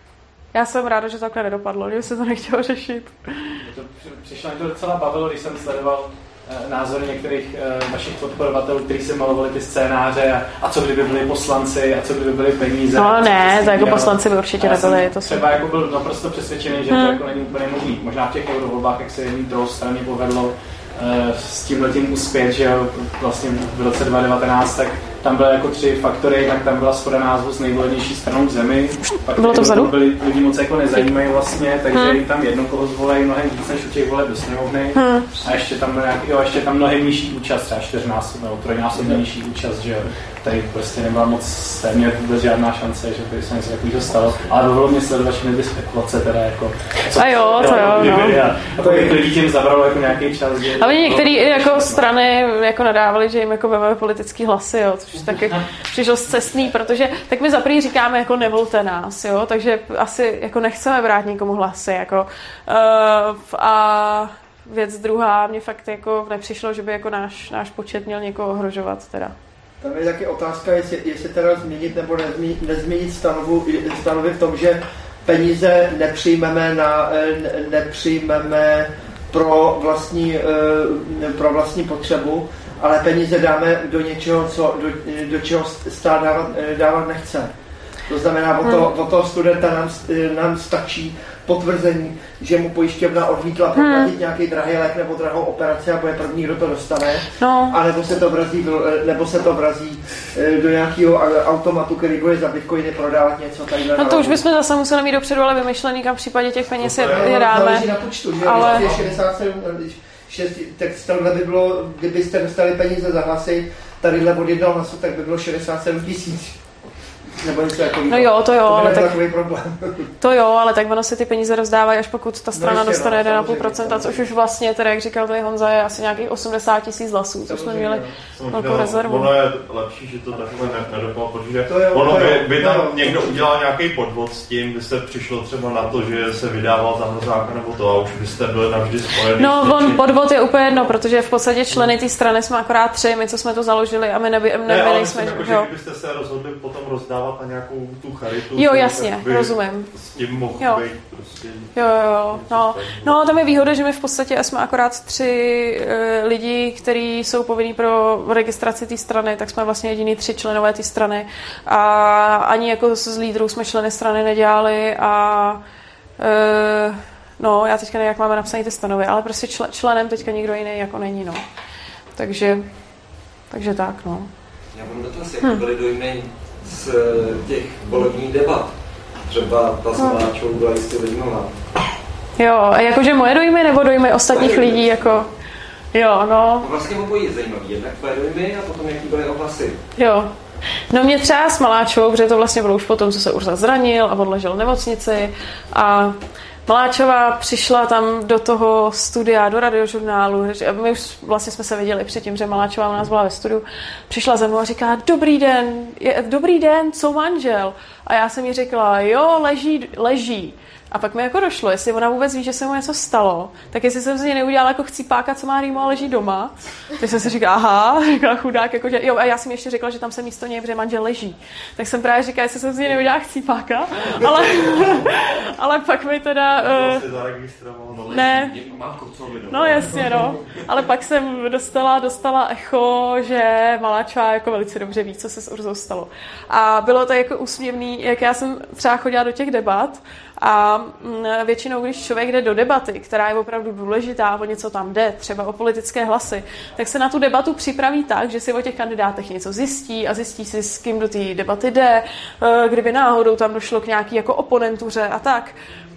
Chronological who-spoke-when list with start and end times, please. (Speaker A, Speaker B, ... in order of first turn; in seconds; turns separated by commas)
Speaker A: 0.5-3.6, Speaker B: 3.6-52.1, Speaker A: 12.9-15.4, Speaker A: 16.9-17.2, Speaker A: 29.3-29.9, Speaker A: 31.9-32.2, Speaker A: 34.9-35.3, Speaker A: 47.2-48.4, Speaker C: 47.6-49.2, Speaker A: 50.8-69.3, Speaker C: 69.8-87.5, Speaker C: 88.1-104.4, Speaker A: 93.8-94.1, Speaker A: 97.4-97.7, Speaker A: 104.0-108.9, Speaker D: 106.8-107.2, Speaker C: 107.0-116.6, Speaker C: 117.4-120.1, Speaker A: 118.1-119.2, Speaker A: 120.2-129.3, Speaker C: 122.5-124.3, Speaker C: 127.5-128.2, Speaker D: 128.3-140.0, Speaker C: 131.7-133.5, Speaker A: 139.4-145.7, Speaker D: 144.7-153.3, Speaker A: 148.5-149.9, Speaker A: 150.6-150.8, Speaker A: 151.7-165.6, Speaker A: 166.2-171.4, Speaker A: 172.2-172.7, Speaker A: 173.5-174.3, Speaker E: 174.7-178.7, Speaker E: 179.2-181.6, Speaker A: 182.4-185.3, Speaker E: 184.3-185.1, Speaker A: 185.9-186.7, Speaker E: 186.6-189.8, Speaker A: 190.0-190.3, Speaker A: 190.9-227.0, Speaker D: 224.6-224.9, Speaker D: 226.6-230.2, Speaker A: 228.1-228.6, Speaker E: 229.2-229.5, Speaker A: 229.5-255.6